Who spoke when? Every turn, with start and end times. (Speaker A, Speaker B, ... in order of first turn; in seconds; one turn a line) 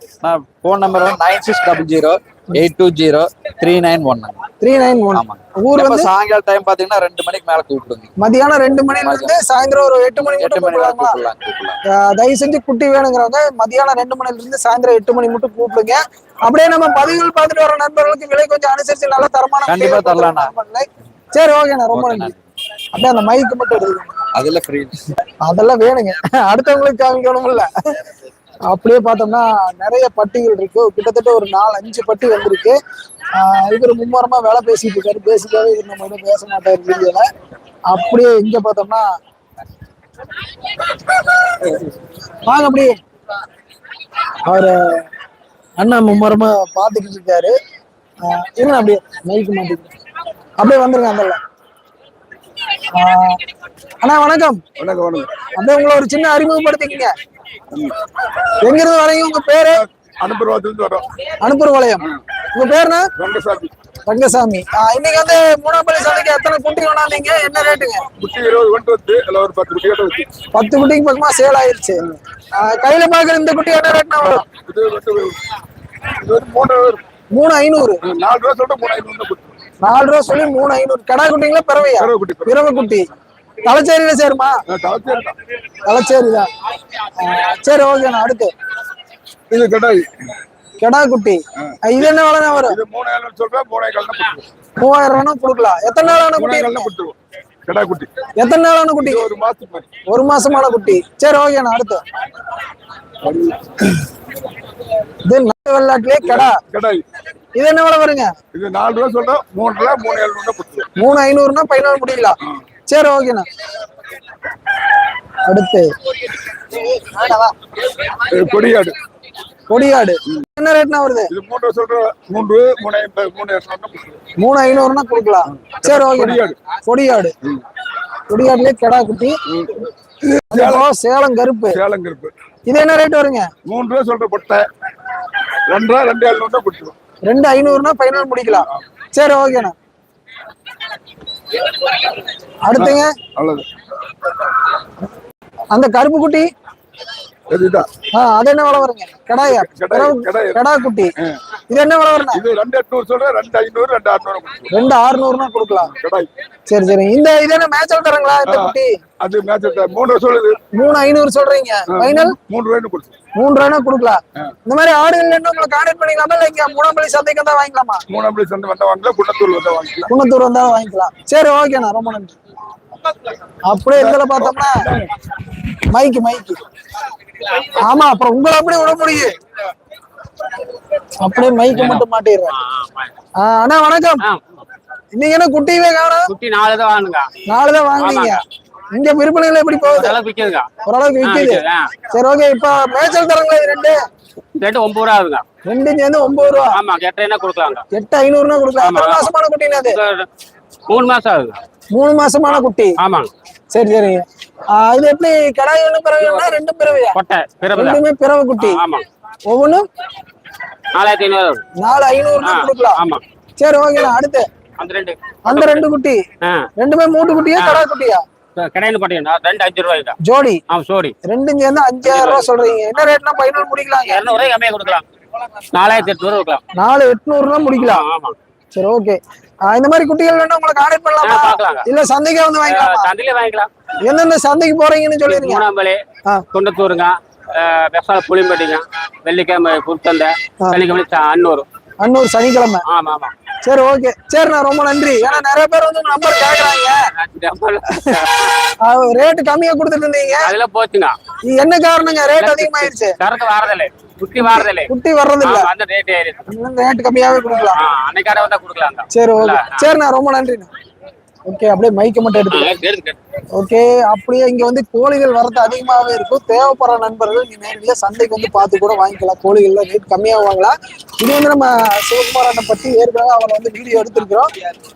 Speaker A: 0.2-4.4
Speaker B: 4.6-6.1
Speaker A: 5.1-8.1
Speaker B: 8.2-11.2
Speaker A: 8.9-9.4
Speaker A: 10.2-11.8
Speaker B: 11.9-22.3
Speaker A: 19.7-20.5
Speaker A: 21.9-22.4
Speaker B: 22.9-24.2
Speaker A: 24.3-25.1
Speaker B: 25.4-27.7
Speaker B: 28.7-32.8
Speaker B: 33.3-37.3
Speaker B: 37.9-39.1
Speaker B: 42.4-43.0
Speaker B: 44.4-45.1
Speaker B: 45.8-47.5
Speaker B: 48.2-49.9
Speaker B: 50.6-51.4
Speaker B: 52.9-53.4
Speaker B: 54.0-54.6
Speaker C: 54.8-55.4
Speaker B: 55.5-57.1
Speaker B: 58.6-59.9
Speaker C: 60.2-61.1
Speaker B: 61.4-63.1
Speaker C: 63.1-63.7
Speaker B: 64.1-68.0
Speaker C: 68.2-70.3
Speaker B: 70.5-72.0
Speaker B: 72.6-74.5
Speaker C: 74.5-75.4
Speaker C: 76.1-77.0
Speaker B: 77.3-78.0
Speaker C: 78.0-79.6
Speaker B: 79.8-83.1
Speaker C: 81.8-82.6
Speaker B: 83.6-84.6
Speaker C: 84.7-85.4
Speaker B: 85.8-86.5
Speaker B: 87.2-88.5
Speaker C: 89.5-90.1
Speaker B: 90.8-92.8
Speaker C: 92.6-94.4
Speaker B: 94.8-96.9
Speaker C: 96.2-98.1
Speaker B: 98.3-99.2
Speaker C: 99.0-99.9
Speaker B: 100.1-102.0
Speaker C: 103.2-103.8
Speaker B: 105.2-106.6
Speaker C: 106.2-107.0
Speaker B: 107.5-108.3
Speaker C: 108.5-110.9
Speaker B: 111.0-113.5
Speaker B: 115.5-115.9
Speaker C: 118.2-119.0
Speaker B: 119.7-121.3
Speaker C: 121.3-124.2
Speaker B: 124.3-127.3
Speaker C: 125.7-126.6
Speaker B: 128.3-129.4
Speaker C: 129.5-130.8
Speaker B: 130.5-131.8
Speaker C: 131.7-132.3
Speaker B: 132.7-133.5
Speaker C: 133.6-134.7
Speaker C: 135.7-136.9
Speaker B: 137.2-139.7
Speaker C: 138.3-138.8
Speaker B: 142.7-143.1
Speaker C: 142.8-143.7
Speaker B: 145.7-146.5
Speaker C: 147.5-147.9
Speaker B: 148.1-151.1
Speaker C: 149.4-150.6
Speaker B: 151.7-152.4
Speaker C: 152.3-154.7
Speaker B: 154.7-155.9
Speaker C: 155.9-156.3
Speaker B: 156.7-158.9
Speaker C: 158.5-160.6
Speaker B: 160.7-162.4
Speaker C: 161.9-163.1
Speaker B: 163.3-168.0
Speaker C: 168.1-170.1
Speaker B: 170.1-172.3
Speaker B: 173.7-174.9
Speaker C: 173.9-175.1
Speaker B: 175.9-176.6
Speaker B: 177.5-179.3
Speaker B: 181.2-182.5
Speaker D: 181.7-183.1
Speaker B: 183.4-184.2
Speaker B: 185.1-186.3
Speaker D: 186.3-187.3
Speaker B: 187.4-190.2
Speaker D: 188.0-188.4
Speaker D: 189.8-190.7
Speaker B: 190.8-194.0
Speaker D: 191.2-191.9
Speaker D: 194.6-195.4
Speaker B: 195.7-196.8
Speaker D: 196.6-197.8
Speaker B: 197.9-200.0
Speaker D: 198.8-200.3
Speaker D: 200.9-201.6
Speaker B: 201.9-202.9
Speaker D: 203.0-203.3
Speaker B: 203.7-207.2
Speaker D: 207.1-208.0
Speaker B: 207.7-208.8
Speaker D: 208.6-209.0
Speaker B: 209.5-209.8
Speaker D: 210.9-211.6
Speaker B: 211.8-213.0
Speaker D: 212.4-213.2
Speaker B: 213.6-214.5
Speaker D: 214.8-215.8
Speaker B: 215.5-216.2
Speaker D: 216.4-216.7
Speaker B: 216.8-218.2
Speaker D: 217.5-217.8
Speaker D: 218.6-220.2
Speaker B: 220.2-220.6
Speaker D: 220.7-221.1
Speaker B: 221.2-224.2
Speaker D: 222.0-222.9
Speaker D: 224.0-225.0
Speaker D: 225.7-226.6
Speaker B: 226.7-228.0
Speaker D: 227.7-228.3
Speaker B: 228.7-233.1
Speaker D: 231.2-231.9
Speaker D: 232.6-233.7
Speaker B: 234.0-235.6
Speaker D: 235.3-236.0
Speaker D: 236.5-241.7
Speaker B: 242.0-242.8
Speaker D: 242.9-243.3
Speaker B: 243.6-247.1
Speaker D: 246.8-248.6
Speaker B: 248.7-250.5
Speaker D: 250.4-251.2
Speaker B: 251.4-253.2
Speaker D: 252.4-254.9
Speaker B: 254.4-255.7
Speaker D: 255.4-256.5
Speaker B: 256.5-257.8
Speaker D: 257.7-259.8
Speaker B: 259.1-260.7
Speaker B: 261.5-262.7
Speaker D: 262.5-263.2
Speaker B: 263.5-274.5